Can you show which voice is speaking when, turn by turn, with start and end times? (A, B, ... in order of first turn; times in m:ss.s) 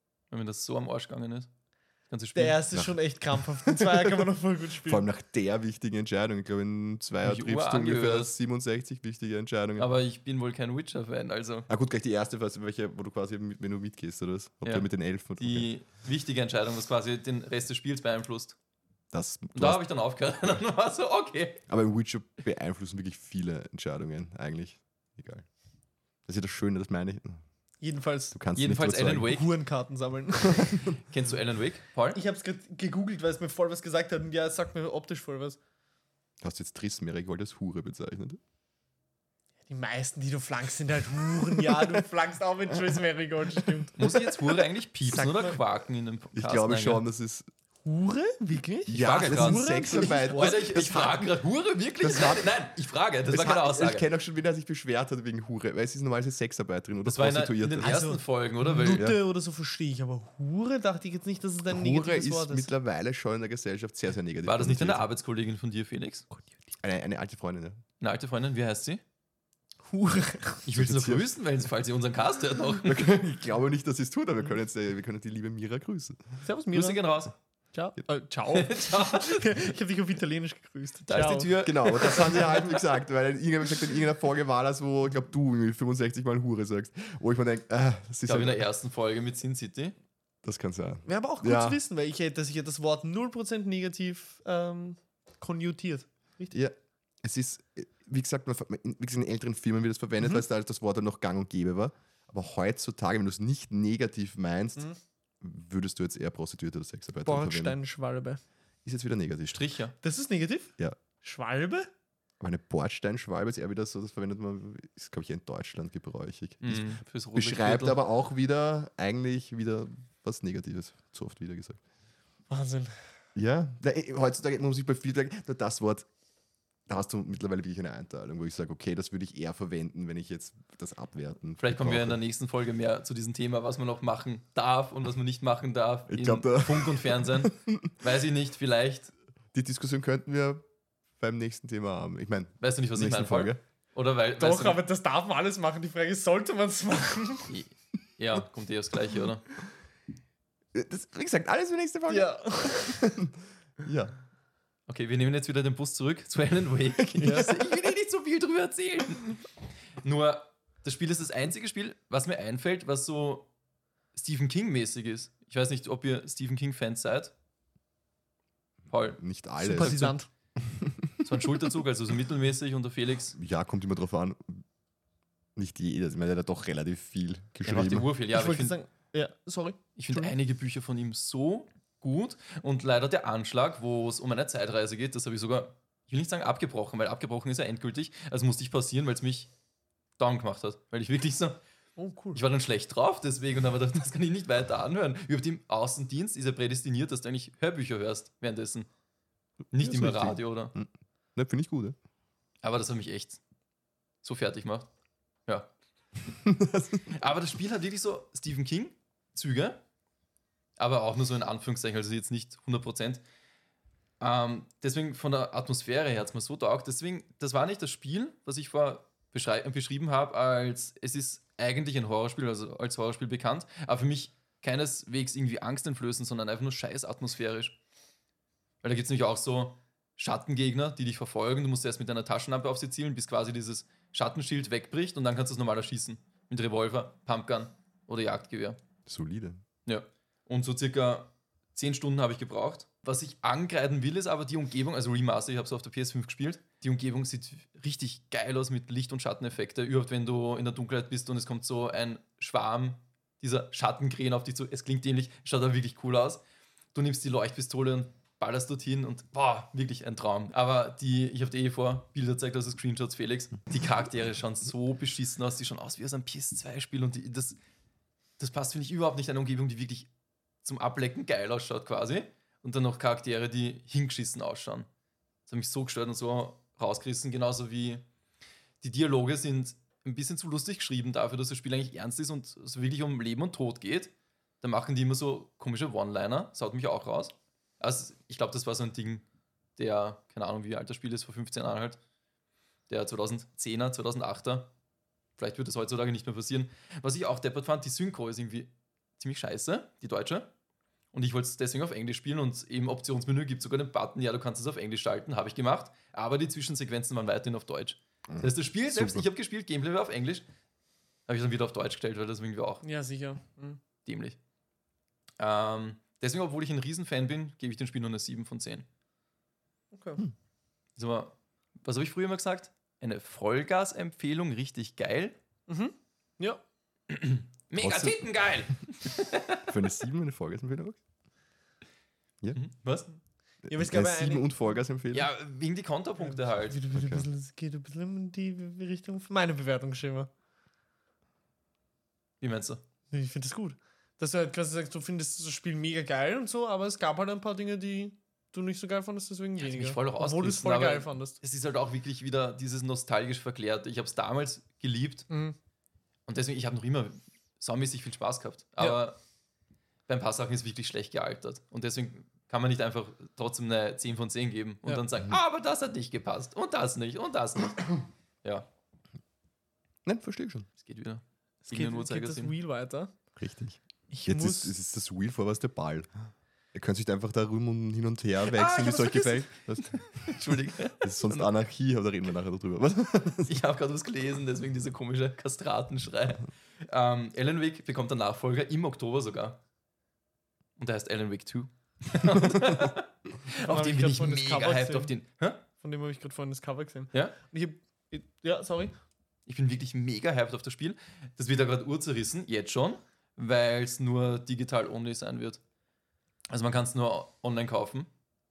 0:00.3-0:01.5 A
0:02.1-0:02.6 A
0:02.4-0:05.1 B
0:04.9-0:09.9 C
0:07.2-0:08.3 A
0:09.8-0:11.7 A
0:11.7-0:15.7 C
0:15.4-0:18.6 A
0:19.1-0:19.8 C
0:19.6-0:21.6 A
0:21.7-0:25.5 C
0:26.3-0:27.4 C
0:27.8-0:28.4 B
0:28.3-0:29.3 C
0:28.6-0:29.5 A
0:29.3-0:30.8 B
0:30.6-0:31.0 C
0:31.1-0:32.2 A
0:32.1-0:35.6 B
0:36.4-0:38.4 C
0:39.7-0:44.2 B
0:43.7-0:44.2 C
0:44.0-0:47.0 A
0:45.1-0:45.6 C
0:46.3-0:47.5 C
0:47.8-0:50.9 B
0:48.9-0:51.3 C
0:49.0-0:54.0 A
0:52.0-0:52.6 C
0:53.3-0:58.0 C
0:57.0-0:59.1 A
0:57.8-1:02.7 B
0:58.9-0:59.2 C
1:01.7-1:05.0 C
1:04.4-1:06.3 A
1:06.8-1:07.8 C
1:08.0-1:09.0 A
1:09.9-1:10.7 B
1:10.7-1:13.1 A
1:10.7-1:11.3 C
1:12.8-1:16.2 C
1:16.4-1:17.0 B
1:16.7-1:17.3 A
1:17.7-1:22.2 B
1:18.5-1:19.5 A
1:21.1-1:22.8 A
1:21.6-1:28.6 C
1:28.3-1:30.0 A
1:30.4-1:31.8 C
1:31.1-1:36.6 B
1:36.5-1:44.9 C
1:45.4-1:47.8 C
1:47.2-1:48.4 B
1:48.8-1:49.6 C
1:49.5-1:49.9 A
1:50.0-1:51.9 B
1:52.4-2:01.8 C
1:56.6-1:58.0 A
2:02.5-2:03.0 B
2:03.4-2:06.1 C
2:06.9-2:12.2 C
2:11.6-2:19.1 A
2:16.1-2:17.9 C
2:19.5-2:20.6 C
2:21.2-2:23.6 C
2:22.6-2:24.8 A
2:24.4-2:27.5 B
2:27.5-2:29.5 A
2:30.7-2:34.2 C
2:32.1-2:33.1 B
2:34.9-2:39.4 A
2:37.2-2:37.5 B
2:37.2-2:37.5 C
2:40.0-2:43.5 A
2:44.1-2:47.3 A
2:48.9-2:49.2 A
2:49.2-2:51.1 C
2:49.6-2:50.3 B
2:49.7-2:50.0 A
2:51.2-2:53.4 A
2:53.4-2:54.6 C
2:55.6-2:58.1 C
2:57.6-2:58.8 A
2:58.3-3:00.3 B
3:00.0-3:09.5 A
3:10.2-3:11.6 A
3:12.0-3:12.4 B
3:12.3-3:18.9 A
3:19.7-3:20.7 A
3:19.9-3:22.0 C
3:22.6-3:23.4 A
3:24.2-3:24.9 A
3:26.4-3:27.1 C
3:27.1-3:29.8 A
3:30.8-3:33.2 A
3:34.2-3:47.8 A
3:48.8-3:58.8 A
3:59.1-3:59.6 C
3:59.9-4:16.4 A
4:16.9-4:27.6 A
4:28.4-4:30.1 A
4:30.6-4:34.9 A
4:35.5-4:38.0 A
4:38.8-4:49.2 A
4:49.8-4:52.0 A
4:52.9-4:54.7 A
4:55.4-5:00.5 A
5:01.1-5:10.4 A
5:08.3-5:09.2 C
5:11.3-5:12.8 A
5:12.8-5:13.8 B
5:14.0-5:14.4 A
5:15.4-5:18.9 A
5:19.9-5:20.2 B
5:21.0-5:25.4 A
5:25.7-5:26.6 B
5:27.1-5:29.6 A
5:27.8-5:28.2 C
5:29.7-5:31.0 C
5:32.5-5:33.1 A
5:33.7-5:35.3 C
5:33.7-5:34.6 B
5:35.1-5:36.8 A
5:36.2-5:40.3 B
5:36.9-5:37.2 C
5:42.4-5:42.8 A
5:43.1-5:51.4 B
5:49.6-5:55.3 A
5:55.3-5:55.6 B
5:56.3-5:59.2 A
6:00.1-6:08.7 A
6:10.0-6:10.7 C
6:10.8-6:12.5 A
6:11.7-6:13.1 B
6:13.4-6:16.1 C
6:14.1-6:14.7 B
6:16.7-6:23.6 C
6:18.4-6:21.5 A
6:23.5-6:29.6 A
6:30.8-6:33.1 A
6:33.6-6:35.6 A
6:33.7-6:35.1 B
6:35.8-6:39.0 B
6:39.5-6:45.6 A
6:46.5-6:48.1 A